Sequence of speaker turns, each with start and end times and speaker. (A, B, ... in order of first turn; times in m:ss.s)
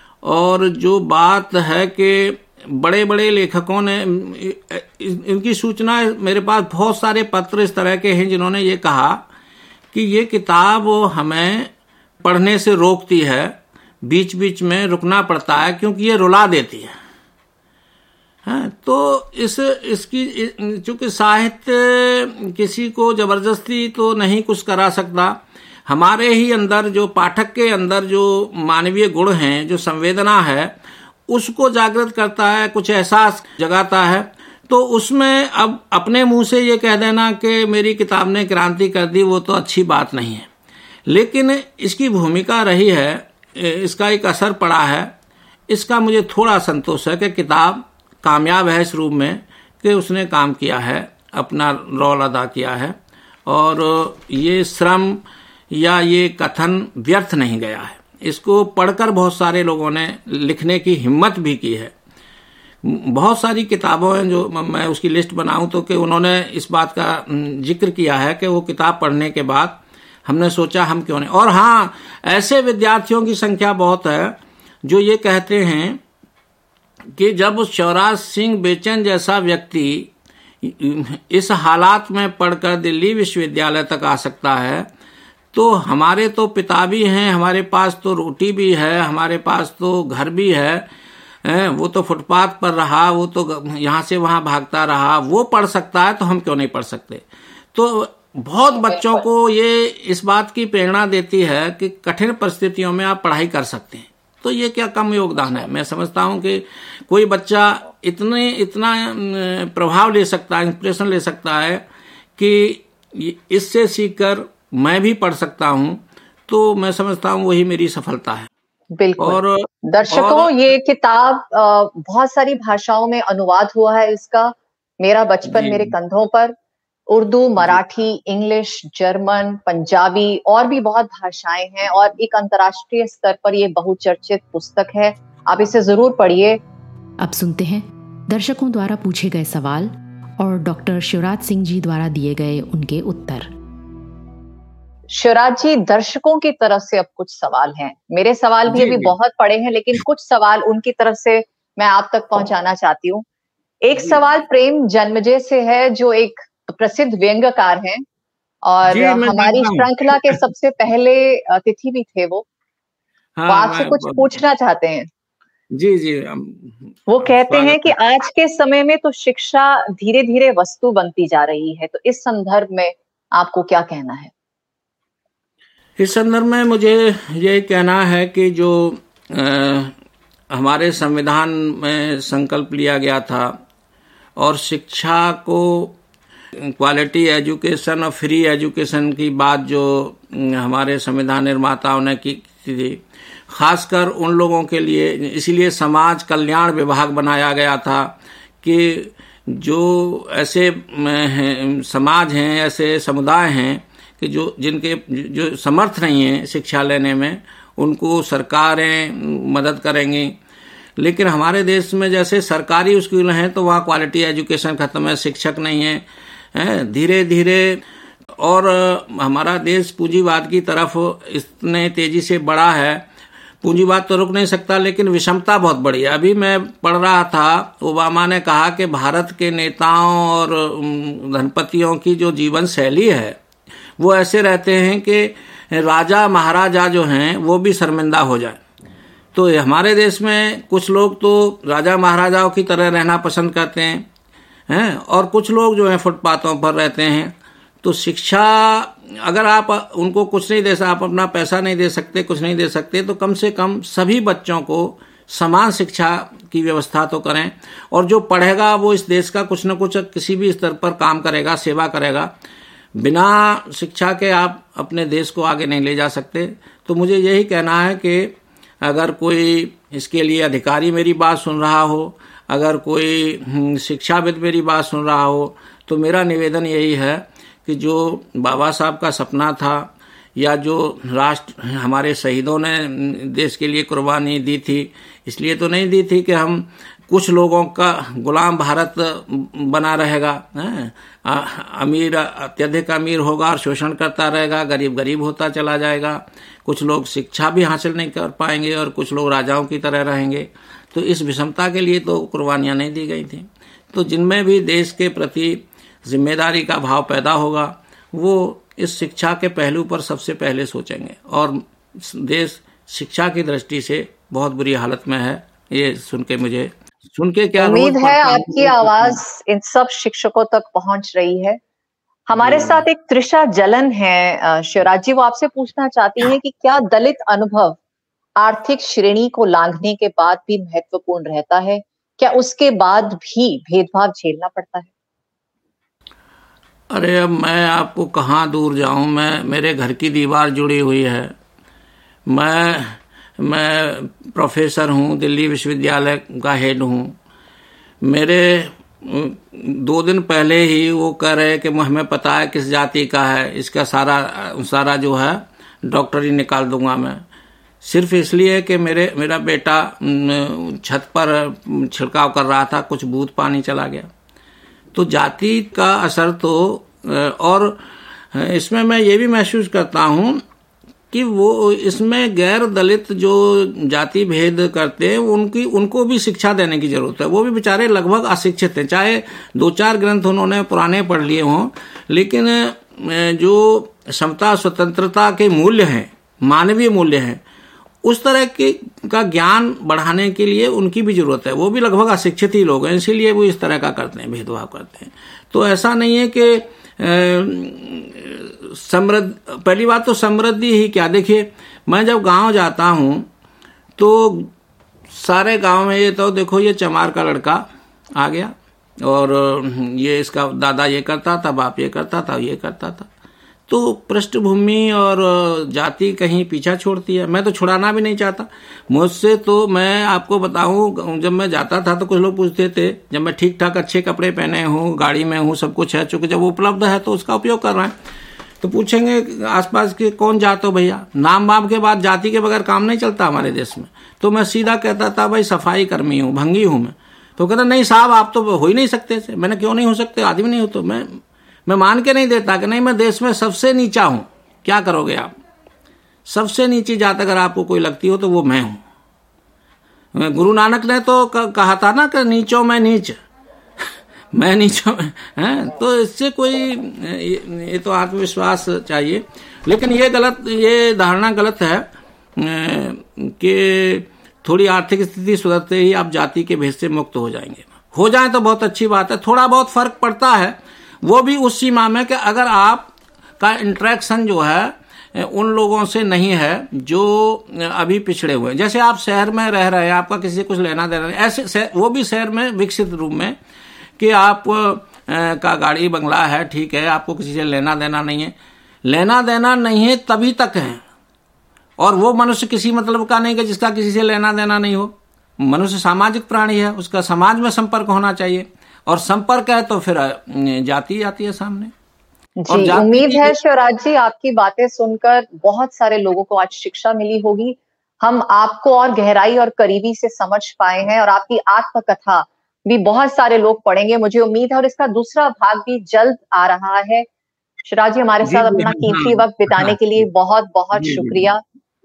0:00.2-0:09.2 A
0:09.9-0:16.9 A
0:18.4-0:30.7 A
0:31.3-0:40.5 A
0:41.1-0:45.1 A
0:45.7-1:01.9 A
1:02.8-1:16.0 A
1:17.2-1:20.1 A
1:20.6-1:24.9 A
1:25.5-1:30.9 A
1:31.4-1:51.8 A
1:52.4-1:58.5 A
1:59.0-2:06.6 B
1:59.2-2:00.7 A
2:05.5-2:05.9 A
2:07.1-2:16.6 B
2:17.2-2:23.5 C
2:25.1-2:33.2 B
2:28.7-2:29.1 A
2:33.8-2:38.0 B
2:38.6-2:42.5 B
2:38.9-2:40.4 A
2:43.4-2:44.4 A
2:43.5-2:45.1 B
2:45.7-2:48.0 A
2:47.1-2:54.3 B
2:56.0-2:59.9 A
3:00.5-3:03.6 A
3:04.4-3:06.0 A
3:06.6-3:30.4 A
3:31.0-3:37.8 A
3:38.4-3:43.0 A
3:43.6-3:53.4 A
3:54.0-3:58.6 A
3:59.3-4:04.1 A
4:04.7-4:22.3 A
4:23.0-5:19.2 A
5:17.6-5:21.6 B
5:22.3-5:27.8 B
5:22.4-5:22.8 A
5:28.4-5:34.9 B
5:36.9-5:41.3 A
5:42.3-5:47.2 A
5:48.0-5:57.2 A
5:57.8-6:04.1 A
6:04.9-6:07.8 A
6:08.3-6:10.4 A
6:11.1-6:27.4 A
6:28.0-6:43.3 A
6:44.0-6:44.5 A
6:45.1-6:47.6 A
6:48.2-6:53.1 A
6:53.7-7:08.0 A
7:08.6-7:25.3 A
7:26.3-7:28.8 A
7:30.2-7:33.2 A
7:34.3-8:03.4 A
8:04.0-8:08.3 A
8:08.8-8:10.8 A
8:11.8-8:21.7 A
8:22.4-8:37.1 B
8:22.5-8:23.4 A
8:37.7-8:41.4 B
8:38.2-8:39.8 A
8:40.7-8:41.3 A